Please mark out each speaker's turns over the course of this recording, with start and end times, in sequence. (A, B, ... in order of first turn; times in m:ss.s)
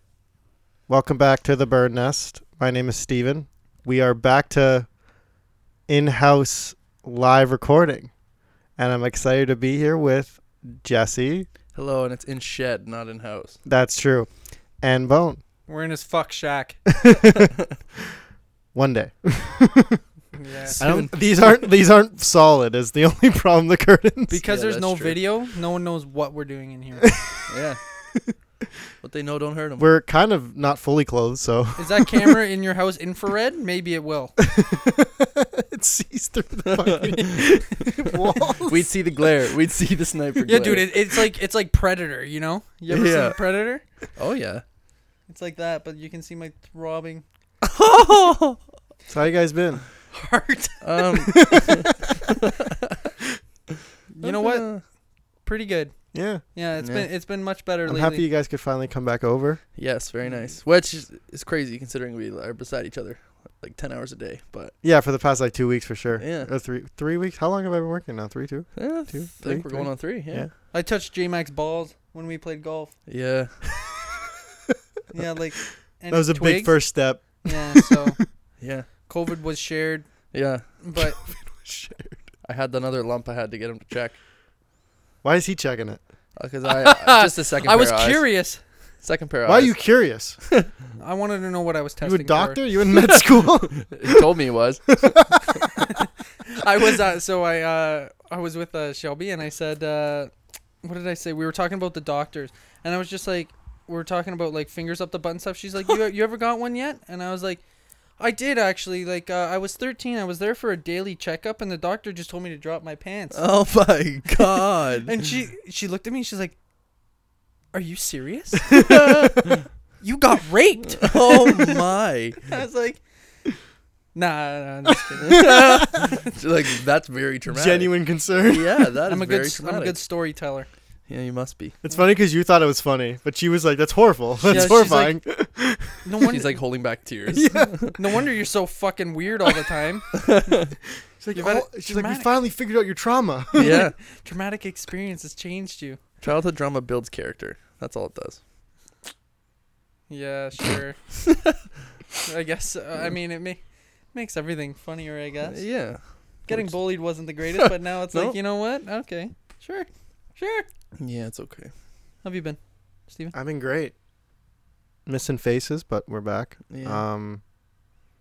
0:00.9-0:04.9 A
0:05.9-0:08.1 A
0:08.8-0:11.5 A
0:11.7-0:13.6 B
0:13.6-0:14.3 A
0:14.8-0:15.4 A
0:15.7-0:16.8 C
0:16.9-0:17.5 A
0:18.7-0:20.0 A
0:20.3-0:20.8 C
0:20.8-0:21.5 B
0:20.8-0:24.4 A
0:24.3-0:27.1 C
0:24.4-0:25.2 B
0:27.5-0:27.8 B
0:29.0-0:29.9 B
0:29.8-0:32.3 A
0:31.8-0:34.3 C
0:34.4-0:38.9 A
0:36.6-0:37.9 B
0:38.6-0:40.9 B
0:40.5-0:43.8 C
0:42.9-0:43.4 B
0:44.2-0:44.6 B
0:45.3-0:47.2 C
0:47.6-0:48.6 B
0:49.1-0:49.8 A
0:50.1-0:51.4 C
0:50.8-0:51.9 B
0:51.4-0:51.9 A
0:52.4-0:52.7 B
0:54.1-0:54.9 C
0:54.2-0:54.8 B
0:55.4-0:58.2 C
0:56.1-0:56.4 A
0:56.8-0:57.1 B
0:57.9-0:59.6 A
0:59.7-1:04.7 B
1:04.8-1:10.5 A
1:06.2-1:06.5 B
1:08.8-1:10.5 B
1:10.7-1:12.9 C
1:13.1-1:13.6 B
1:15.1-1:18.2 C
1:16.1-1:18.2 A
1:18.6-1:18.9 B
1:19.1-1:21.2 C
1:20.3-1:20.6 B
1:21.0-1:22.2 A
1:22.4-1:24.2 B
1:25.2-1:26.0 A
1:26.4-1:28.4 B
1:26.7-1:28.6 C
1:29.0-1:29.9 B
1:29.4-1:30.4 A
1:31.0-1:32.6 C
1:32.0-1:34.2 A
1:33.0-1:35.0 B
1:34.9-1:35.8 A
1:36.5-1:40.3 C
1:40.8-1:47.6 C
1:48.2-1:53.4 C
1:53.3-1:55.2 B
1:55.0-1:56.5 C
1:57.7-1:58.7 C
1:58.7-1:59.6 B
2:00.0-2:01.8 C
2:00.9-2:02.4 B
2:02.5-2:03.0 C
2:04.1-2:05.4 C
2:05.3-2:06.0 A
2:05.3-2:07.9 B
2:07.5-2:08.8 A
2:08.4-2:10.0 B
2:09.1-2:10.7 C
2:11.1-2:11.8 B
2:11.8-2:16.0 A
2:14.5-2:15.2 C
2:14.5-2:14.8 B
2:16.0-2:16.6 C
2:16.3-2:18.0 B
2:17.3-2:17.9 A
2:18.0-2:20.1 C
2:20.2-2:20.7 B
2:21.2-2:23.8 A
2:21.3-2:22.3 C
2:23.6-2:23.9 B
2:23.6-2:26.0 C
2:26.2-2:28.4 B
2:30.1-2:31.0 C
2:32.2-2:33.6 C
2:34.1-2:35.6 C
2:35.5-2:36.7 B
2:36.5-2:40.6 C
2:37.6-2:38.4 B
2:41.0-2:41.7 B
2:42.2-2:43.3 C
2:43.3-2:43.9 A
2:45.0-2:47.4 A
2:46.7-2:47.0 B